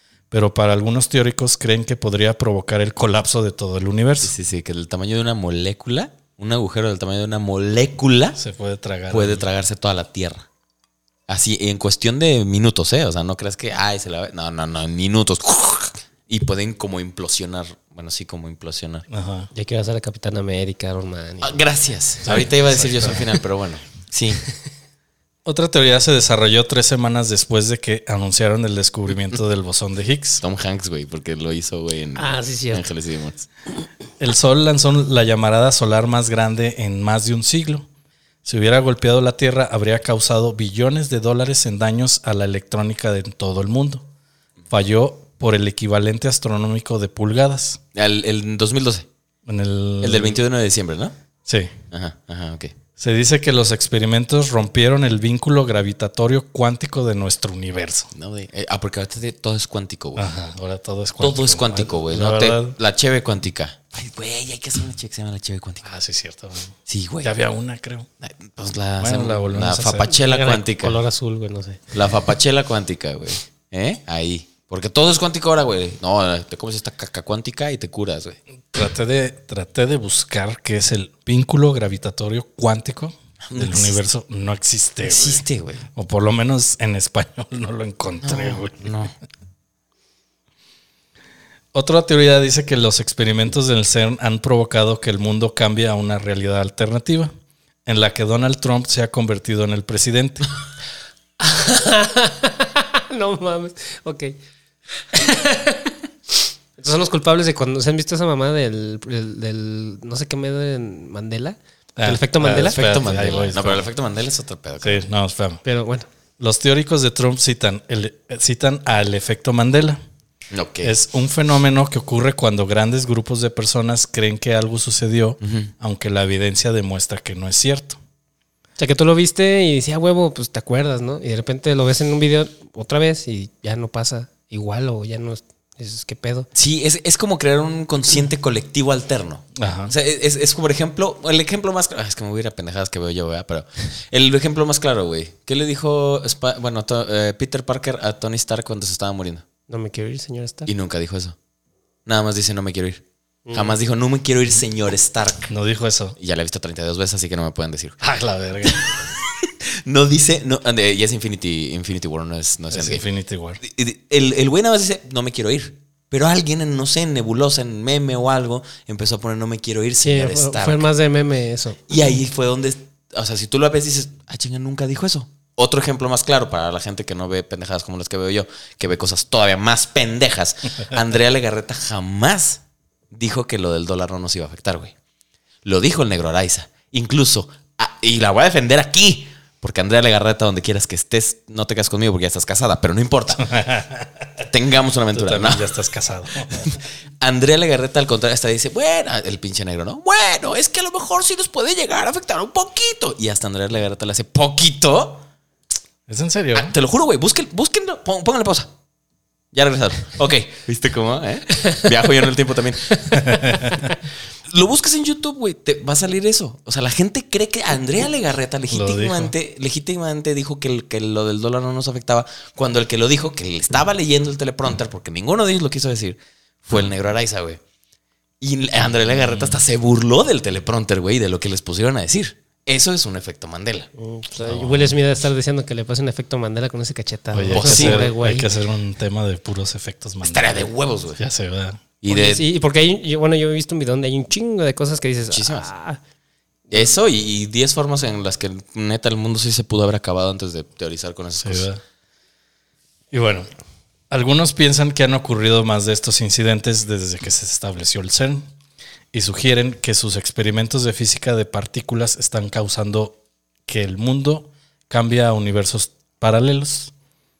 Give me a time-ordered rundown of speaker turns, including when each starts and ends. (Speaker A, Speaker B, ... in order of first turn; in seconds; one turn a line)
Speaker A: 0.3-4.3
Speaker B: 4.2-8.4
Speaker A: 8.4-9.4
Speaker B: 9.1-10.4
Speaker B: 11.3-19.1
Speaker A: 19.1-19.5
Speaker C: 19.5-21.6
Speaker B: 21.4-24.4
Speaker A: 22.2-23.3
Speaker A: 25.4-30.4
Speaker B: 30.4-33.5
Speaker C: 32.1-32.9
Speaker A: 34.2-37.9
Speaker A: 38.4-44.0
Speaker A: 44.7-47.8
Speaker B: 47.9-49.1
Speaker A: 49.5-50.4
Speaker B: 50.0-51.1
Speaker A: 51.5-51.7
Speaker B: 51.9-52.7
Speaker A: 53.0-58.1
Speaker B: 58.1-60.2
Speaker A: 60.1-62.8
Speaker B: 61.2-65.9
Speaker A: 65.8-68.1
Speaker B: 66.9-67.3
Speaker B: 68.2-71.0
Speaker A: 69.0-70.1
Speaker C: 70.1-71.8
Speaker B: 71.9-78.4
Speaker A: 78.7-85.4
Speaker B: 83.5-84.0
Speaker B: 85.0-85.9
Speaker A: 85.9-89.0
Speaker B: 88.2-89.1
Speaker A: 91.7-97.3
Speaker A: 97.8-100.5
Speaker C: 101.4-104.4
Speaker C: 105.0-112.8
Speaker A: 112.0-113.9
Speaker B: 112.5-115.1
Speaker A: 114.8-115.6
Speaker C: 115.6-116.1
Speaker A: 116.4-120.0
Speaker B: 120.5-120.9
Speaker A: 120.8-128.0
Speaker B: 125.4-125.7
Speaker C: 128.8-136.5
Speaker B: 136.5-149.4
Speaker A: 139.5-139.9
Speaker C: 149.7-150.7
Speaker B: 150.7-151.3
Speaker B: 152.1-155.5
Speaker C: 153.5-153.7
Speaker A: 155.5-156.2
Speaker B: 156.2-158.0
Speaker A: 158.0-158.9
Speaker B: 158.6-163.0
Speaker A: 162.7-163.6
Speaker B: 163.6-170.9
Speaker C: 170.0-171.8
Speaker B: 171.9-184.9
Speaker B: 185.6-193.6
Speaker A: 193.4-194.3
Speaker B: 194.4-195.7
Speaker A: 195.1-196.7
Speaker B: 196.5-205.2
Speaker A: 206.1-206.7
Speaker B: 206.5-208.7
Speaker B: 209.5-213.5
Speaker A: 213.1-213.9
Speaker B: 214.5-227.6
Speaker A: 218.7-219.3
Speaker B: 228.4-233.9
Speaker C: 234.0-238.5
Speaker A: 234.4-234.9
Speaker A: 237.3-241.8
Speaker B: 237.5-238.1
Speaker B: 240.2-241.2
Speaker B: 242.0-242.4
Speaker C: 242.1-246.0
Speaker B: 245.3-245.7
Speaker B: 246.7-251.7
Speaker A: 251.4-251.8
Speaker A: 253.1-253.5
Speaker A: 254.1-258.4
Speaker A: 259.1-266.9